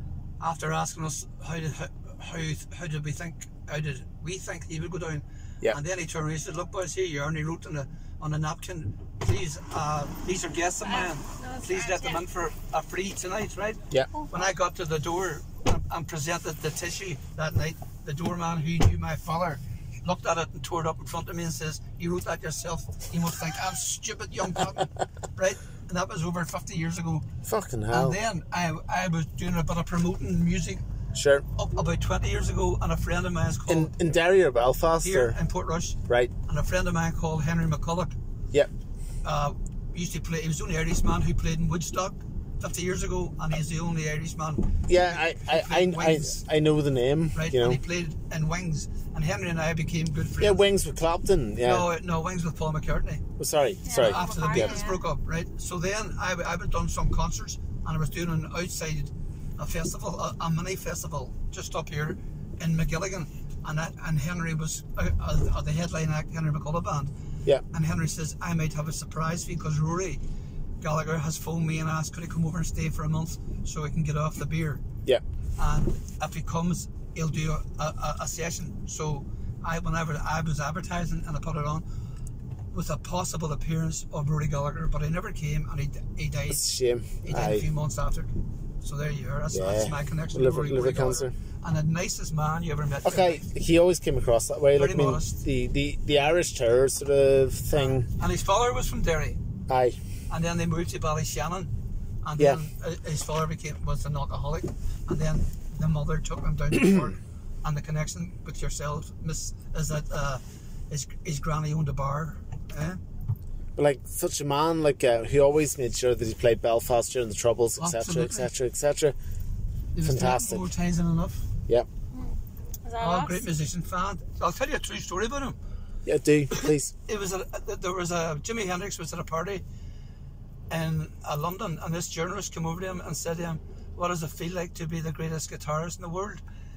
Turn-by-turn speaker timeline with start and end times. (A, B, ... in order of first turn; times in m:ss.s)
0:00.4-0:27.3 A
0:10.8-0:12.2 B
0:27.5-0:28.2 C
0:27.9-0:30.8 A
0:31.2-0:31.4 C
0:31.5-0:33.9 A
0:33.7-0:35.4 C
0:35.0-0:38.2 A
0:36.1-0:36.3 C
0:39.2-0:46.4 A
0:44.9-0:47.8 C
0:47.3-0:50.6 A
0:50.4-0:51.9 C
0:51.6-0:53.2 A
0:53.4-0:54.8 C
0:53.8-0:55.0 B
0:54.0-1:07.1 A
1:07.7-1:10.2 A
1:10.8-1:14.8 A
1:15.6-1:21.9 A
1:22.7-1:26.6 A
1:26.5-1:27.7 C
1:27.2-1:33.4 A
1:29.5-1:31.3 C
1:33.0-1:38.1 C
1:34.7-1:35.4 A
1:37.7-1:39.4 A
1:39.7-1:40.0 C
1:40.3-1:41.7 A
1:42.2-1:53.0 A
1:53.8-1:59.2 C
1:57.8-1:58.5 A
1:59.9-2:01.5 A
2:00.0-2:00.7 C
2:02.1-2:03.4 B
2:03.0-2:05.6 A
2:06.1-2:06.9 C
2:06.6-2:09.6 A
2:10.7-2:16.4 A